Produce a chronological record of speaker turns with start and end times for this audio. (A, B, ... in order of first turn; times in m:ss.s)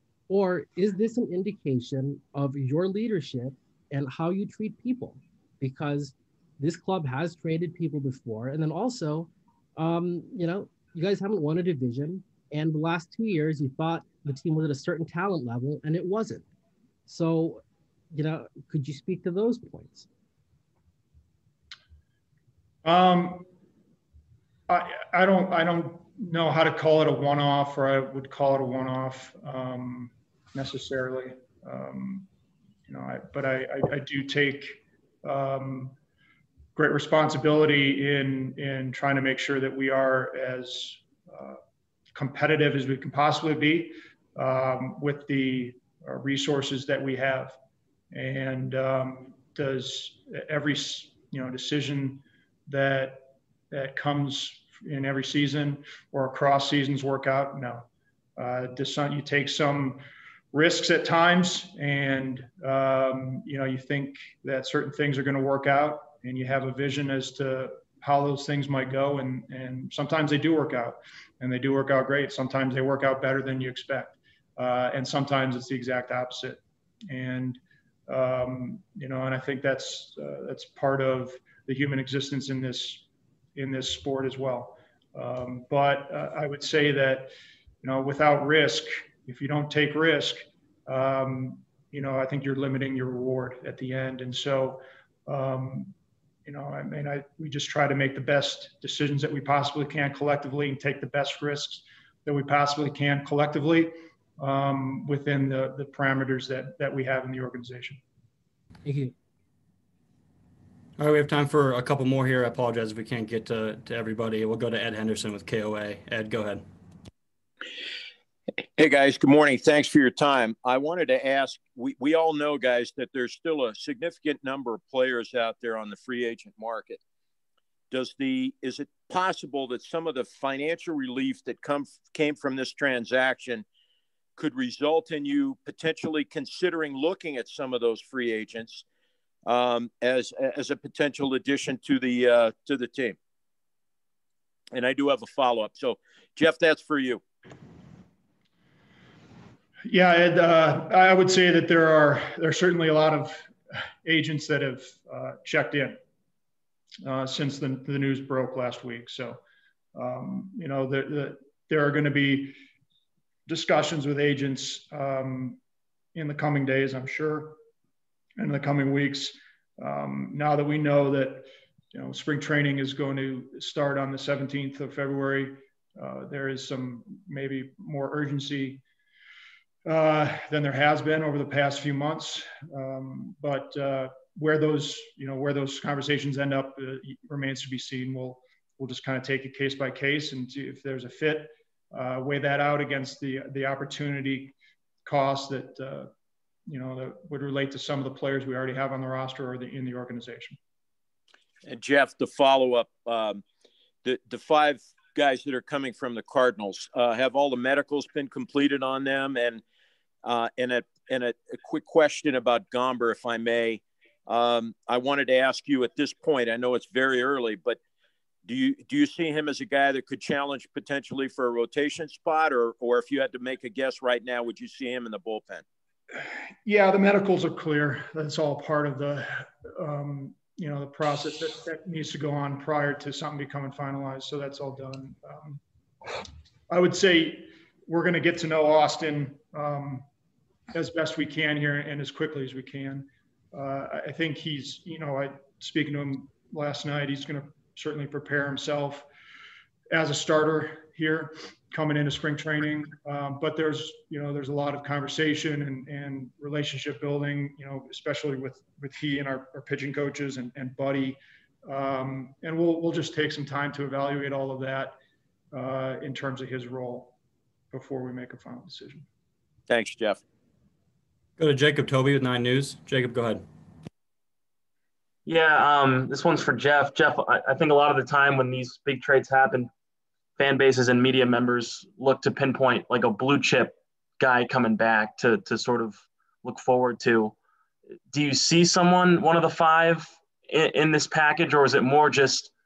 0:00.3-0:16.4 A
0:17.1-0:20.1 A
0:22.8-0:23.5 B
0:24.7-0:32.3 B
0:32.9-0:35.9 B
0:36.8-0:41.6 B
0:42.2-0:47.6 B
0:48.1-1:00.0 B
1:00.5-1:23.0 B
1:23.6-1:27.3 B
1:27.8-1:35.9 B
1:36.4-1:48.0 B
1:48.8-1:49.1 A
1:51.0-1:56.6 C
1:58.8-2:07.0 D
2:07.9-2:13.6 D
2:14.4-2:18.8 D
2:19.4-2:23.2 D
2:24.7-2:27.2 D
2:29.9-2:33.5 B
2:34.0-2:36.0 B
2:37.0-2:39.4 B
2:40.0-2:42.6 B
2:43.5-2:45.6 B
2:46.2-2:47.6 B
2:48.4-2:58.8 B
2:59.9-3:16.1 B
3:16.7-3:20.6 B
3:21.6-3:23.4 D
3:24.0-3:29.6 D
3:30.2-3:37.8 D
3:38.4-3:45.6 D
3:46.6-3:55.6 B
3:56.7-4:00.0 B
4:00.7-4:09.1 B
4:09.9-4:25.0 B
4:25.5-4:27.1 B
4:27.7-4:29.1 B
4:29.7-4:30.2 D
4:31.4-4:33.4 C
4:35.3-4:39.7 E
4:40.4-4:47.4 E
4:48.1-4:52.5 E